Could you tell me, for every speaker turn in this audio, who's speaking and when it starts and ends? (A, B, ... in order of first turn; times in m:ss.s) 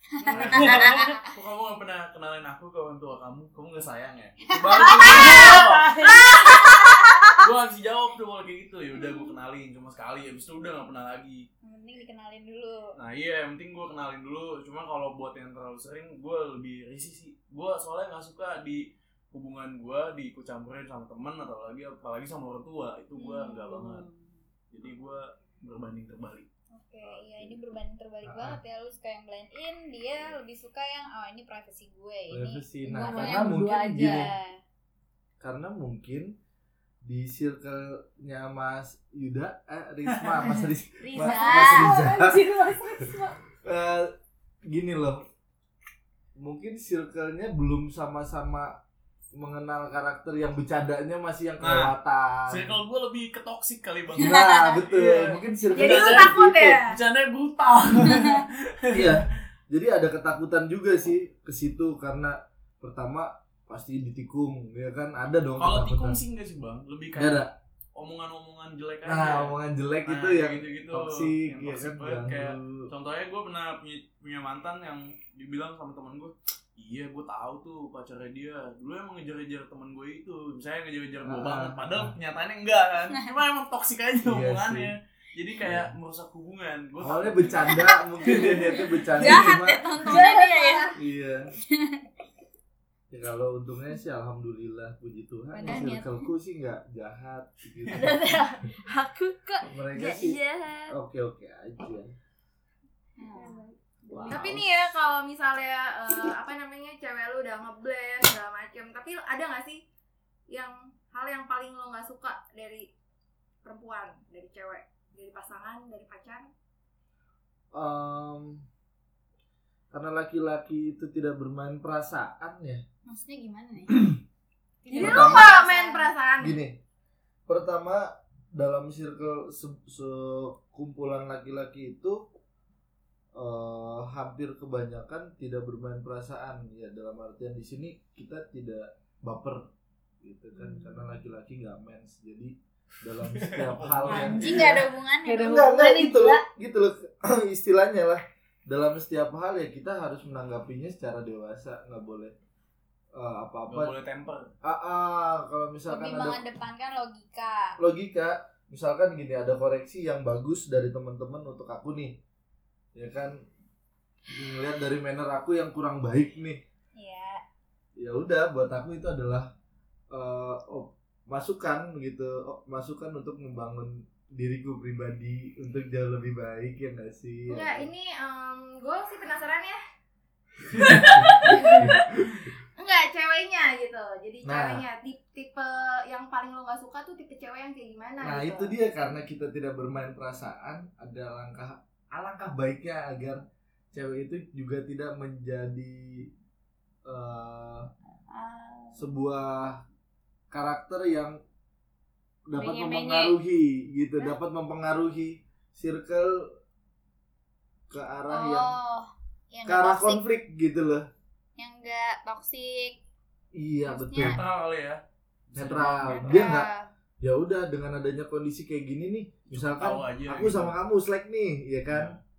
0:00.1-0:01.2 A
0:00.2-0:06.0 B
0:00.5-0:01.1 C
0:04.5-0:07.4 A
0:05.0-0:06.5 C
0:07.4-0:11.5 B
0:11.6-0:12.9 A
0:13.0-0:24.1 B
0:23.2-0:24.4 C
0:24.7-0:26.5 B
0:26.7-0:34.6 A
0:27.0-0:27.6 B
0:28.2-0:28.6 D
0:32.3-0:34.3 D
0:32.9-0:34.3 C
0:35.4-0:36.4 D
0:37.0-0:43.0 D
0:41.0-0:42.1 A
0:41.1-0:43.4 C
0:43.6-0:44.1 D
0:44.6-0:45.2 D
0:46.4-0:48.8 D
0:49.3-0:52.7 D
0:51.6-0:51.9 B
0:52.5-0:59.2 B
0:54.2-0:56.8 D
0:54.2-0:54.8 A
0:55.7-0:57.0 E
0:58.1-0:58.4 A
0:58.9-1:06.2 D
1:05.6-1:28.8 B
1:07.2-1:07.5 D
1:09.0-1:12.9 D
1:21.2-1:22.2 D
1:24.2-1:24.9 D
1:25.6-1:25.9 D
1:27.0-1:30.1 D
1:28.2-1:28.6 A
1:29.2-1:30.9 A
1:30.1-1:30.8 E
1:31.0-1:31.5 D
1:31.7-1:32.1 A
1:33.1-1:38.3 D
1:35.5-1:36.3 A
1:39.7-1:42.1 D
1:40.1-1:40.9 A
1:43.2-1:43.7 A
1:43.4-1:44.5 C
1:44.1-1:44.7 D
1:44.3-1:49.8 E
1:50.5-1:52.9 E
1:53.6-1:56.5 E
1:57.7-1:58.6 D
1:59.9-2:02.8 D
2:03.1-2:04.2 A
2:03.9-2:04.2 D
2:04.8-2:06.1 A
2:04.9-2:06.6 E
2:05.0-2:05.5 D
2:06.4-2:06.8 D
2:07.5-2:12.3 D
2:13.3-2:19.7 D
2:20.2-2:24.9 D
2:20.6-2:21.1 C
2:23.3-2:24.7 B
2:24.1-2:25.6 A
2:25.2-2:26.3 C
2:25.4-2:32.3 D
2:33.1-2:33.9 D
2:33.7-2:34.5 B
2:34.6-2:36.4 D
2:35.9-2:37.8 A
2:37.8-2:42.2 D
2:43.0-2:43.4 D
2:44.3-2:46.6 D
2:47.0-2:47.4 A
2:48.0-2:49.5 D
2:50.1-2:57.9 D
2:57.5-2:59.8 E
3:00.7-3:02.4 D
3:00.8-3:02.0 E
3:02.8-3:08.7 E
3:04.4-3:04.8 D
3:08.2-3:16.3 D
3:17.1-3:17.9 D
3:18.3-3:19.0 A
3:18.9-3:19.8 D
3:20.5-3:21.4 D
3:22.5-3:26.5 D
3:22.6-3:23.4 C
3:27.9-3:28.8 D
3:28.3-3:30.3 A
3:29.7-3:31.1 D
3:31.6-3:33.0 A
3:33.5-3:34.4 D
3:33.9-3:34.4 A
3:34.2-3:35.0 B
3:35.5-3:36.4 B
3:35.5-3:36.7 D
3:35.8-3:36.9 A
3:37.2-3:42.2 D
3:39.5-3:40.8 B
3:41.9-3:42.2 B